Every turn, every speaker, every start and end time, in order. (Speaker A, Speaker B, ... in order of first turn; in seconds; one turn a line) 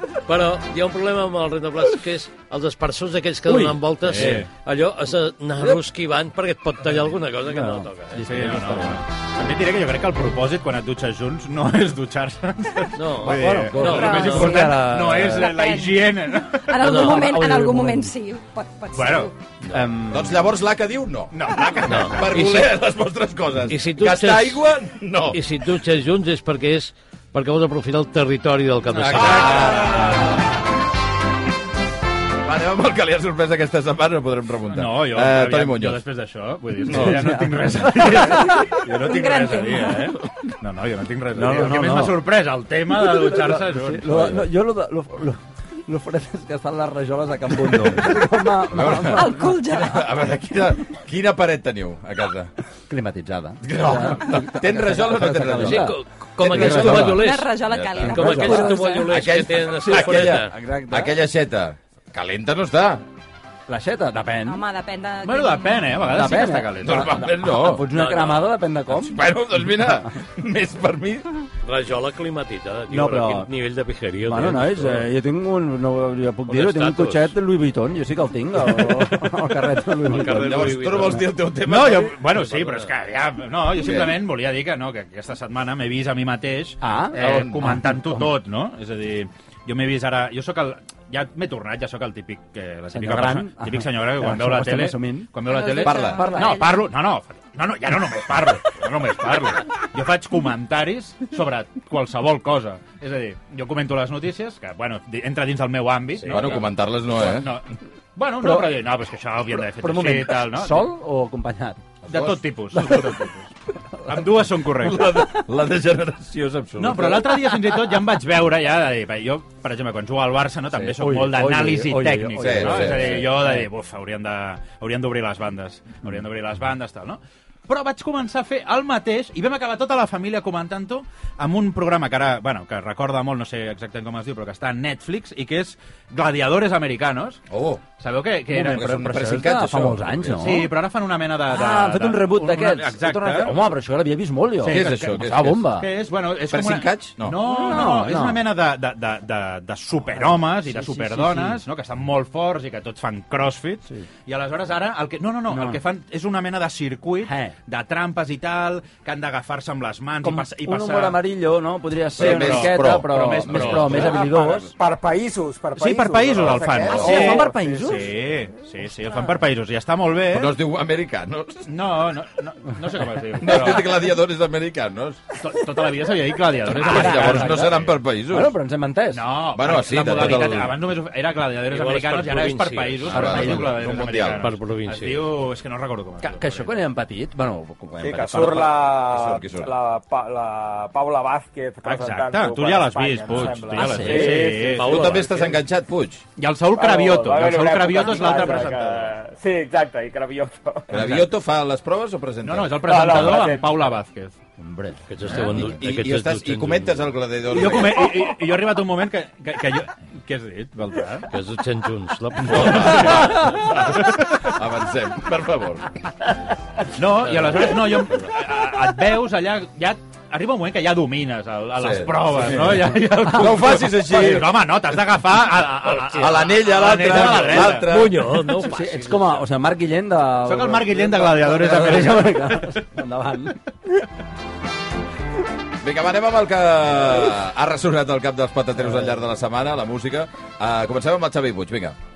Speaker A: 0.2-8.3
Speaker B: 3.5-4.5
Speaker C: 4.1-4.5
Speaker B: 7.5-9.0
Speaker C: 8.2-16.8
Speaker A: 12.9-14.6
Speaker B: 13.2-15.6
Speaker D: 13.8-19.3
Speaker A: 16.8-17.3
Speaker B: 16.9-18.1
Speaker C: 18.9-19.3
Speaker B: 19.7-20.4
Speaker E: 20.1-25.4
Speaker C: 21.3-22.4
Speaker A: 21.8-22.7
Speaker A: 23.7-24.7
Speaker A: 25.3-30.0
Speaker C: 28.9-29.8
Speaker E: 29.0-30.4
Speaker E: 32.4-36.0
Speaker C: 34.7-44.4
Speaker E: 36.9-37.2
Speaker B: 36.9-38.7
Speaker D: 38.7-40.2
Speaker B: 41.3-42.2
Speaker B: 42.9-49.6
Speaker E: 44.1-44.4
Speaker E: 47.7-52.5
Speaker D: 48.9-50.1
Speaker B: 52.9-57.2
Speaker E: 53.6-58.4
Speaker A: 55.6-60.5
Speaker D: 57.1-59.1
Speaker B: 58.0-59.0
Speaker E: 59.1-63.0
Speaker B: 59.8-61.1
Speaker B: 63.7-64.6
Speaker D: 64.4-66.0
Speaker C: 65.2-67.2
Speaker B: 66.0-69.2
Speaker E: 66.8-67.9
Speaker A: 67.9-68.5
Speaker E: 68.9-71.3
Speaker A: 71.6-75.1
Speaker B: 72.9-73.5
Speaker B: 74.3-81.2
Speaker A: 76.5-77.3
Speaker A: 80.0-81.2
Speaker E: 80.2-82.2
Speaker C: 81.6-110.9
Speaker E: 83.8-84.2
Speaker B: 86.8-88.2
Speaker E: 87.2-87.5
Speaker B: 92.9-95.3
Speaker D: 95.4-96.8
Speaker E: 95.8-96.2
Speaker B: 95.9-96.6
Speaker E: 106.3-107.5
Speaker B: 108.4-108.8
Speaker B: 109.8-111.8
Speaker E: 112.1-112.8
Speaker C: 112.1-113.4
Speaker B: 112.7-113.2
Speaker C: 114.0-115.2
Speaker E: 114.8-117.4
Speaker C: 116.8-137.4
Speaker B: 120.7-123.7
Speaker E: 122.3-123.3
Speaker E: 137.5-137.8
Speaker C: 138.0-139.1
Speaker B: 138.5-140.7
Speaker E: 138.7-140.4
Speaker C: 140.3-143.6
Speaker B: 141.5-145.9
Speaker C: 144.6-161.2
Speaker E: 144.7-145.6
Speaker E: 146.5-147.4
Speaker B: 147.4-148.4
Speaker B: 150.1-151.6
Speaker B: 155.5-155.8
Speaker B: 157.2-157.5
Speaker B: 160.2-164.7
Speaker C: 162.2-164.6
Speaker E: 162.2-164.2
Speaker F: 164.0-168.1
Speaker C: 165.7-170.5
Speaker E: 166.8-167.1
Speaker B: 166.9-168.1
Speaker E: 170.3-171.7
Speaker C: 171.7-174.0
Speaker E: 173.4-175.2
Speaker C: 175.4-177.9
Speaker E: 176.7-178.5
Speaker B: 176.7-179.2
Speaker C: 179.1-186.8
Speaker E: 179.5-180.8
Speaker A: 181.7-183.2
Speaker E: 183.1-184.5
Speaker B: 183.1-183.7
Speaker A: 184.2-185.3
Speaker B: 186.2-188.7
Speaker F: 188.0-195.2
Speaker E: 188.5-189.7
Speaker C: 191.8-195.2
Speaker B: 193.7-194.5
Speaker A: 194.6-195.6
Speaker E: 194.8-196.2
Speaker C: 196.4-199.1
Speaker F: 196.7-201.1
Speaker E: 200.9-203.5
Speaker C: 200.9-201.2
Speaker C: 202.4-204.3
Speaker F: 202.8-203.9
Speaker B: 204.6-205.0
Speaker A: 205.1-207.1
Speaker E: 205.3-208.1
Speaker C: 207.5-211.3
Speaker A: 211.3-213.6
Speaker E: 212.5-215.8
Speaker C: 212.6-214.1
Speaker C: 216.9-227.9
Speaker A: 217.2-217.7
Speaker E: 221.8-224.6
Speaker E: 225.9-228.3
Speaker A: 227.1-229.4
Speaker B: 228.6-233.6
Speaker C: 230.4-232.8
Speaker E: 235.8-241.9